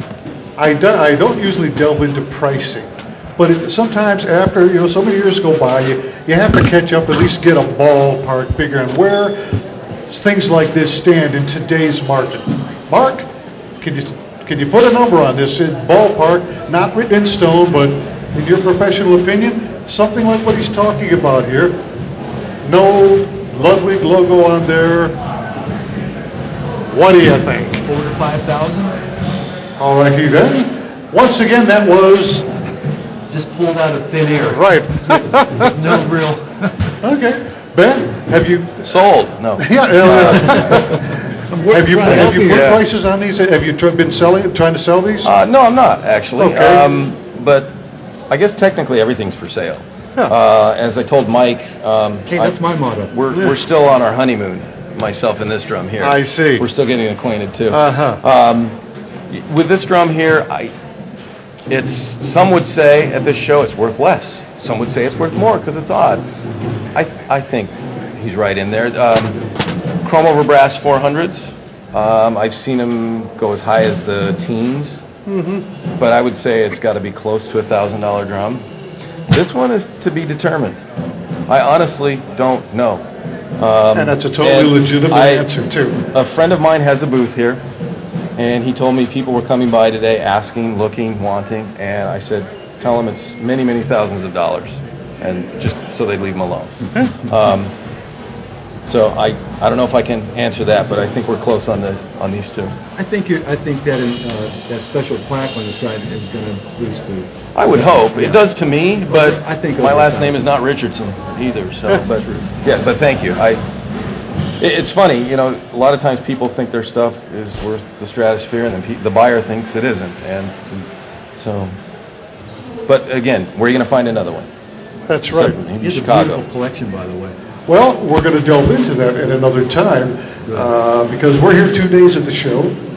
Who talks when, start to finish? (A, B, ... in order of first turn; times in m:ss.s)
0:00.6-0:13.2 A
0:13.8-0:21.8 A
0:22.6-0:25.2 A
0:26.9-0:27.8 A
0:27.8-0:29.0 B
0:29.8-0:32.5 A
0:33.3-0:36.9 B
0:34.4-0:35.7 A
0:37.0-0:39.0 A
0:38.8-0:40.9 C
0:39.6-0:41.1 A
0:40.5-0:41.0 B
0:41.5-0:42.7 B
0:41.7-0:45.4 A
0:42.0-0:42.8 C
0:45.2-0:47.7 C
0:46.4-0:46.9 A
0:48.3-0:52.6 C
0:52.3-0:53.1 B
0:53.1-0:58.8 C
0:53.3-0:53.6 A
0:56.0-0:56.6 A
0:57.7-0:58.2 A
0:59.3-1:00.7 C
1:01.7-1:06.2 C
1:06.9-1:09.4 C
1:10.0-1:14.9 C
1:15.2-1:15.7 A
1:16.0-1:18.6 C
1:19.3-1:20.8 C
1:21.5-1:23.0 C
1:23.6-1:25.5 C
1:23.9-1:26.0 A
1:26.1-1:27.6 C
1:28.4-1:37.7 C
1:38.8-1:42.7 C
1:43.0-1:47.3 B
1:47.5-1:53.6 C
1:47.9-1:48.4 B
1:49.0-1:50.5 B
1:54.6-2:00.8 C
2:01.4-2:01.7 C
2:02.9-2:04.5 C
2:05.1-2:05.6 A
2:05.3-2:06.4 C
2:05.8-2:07.4 B
2:07.7-2:12.8 A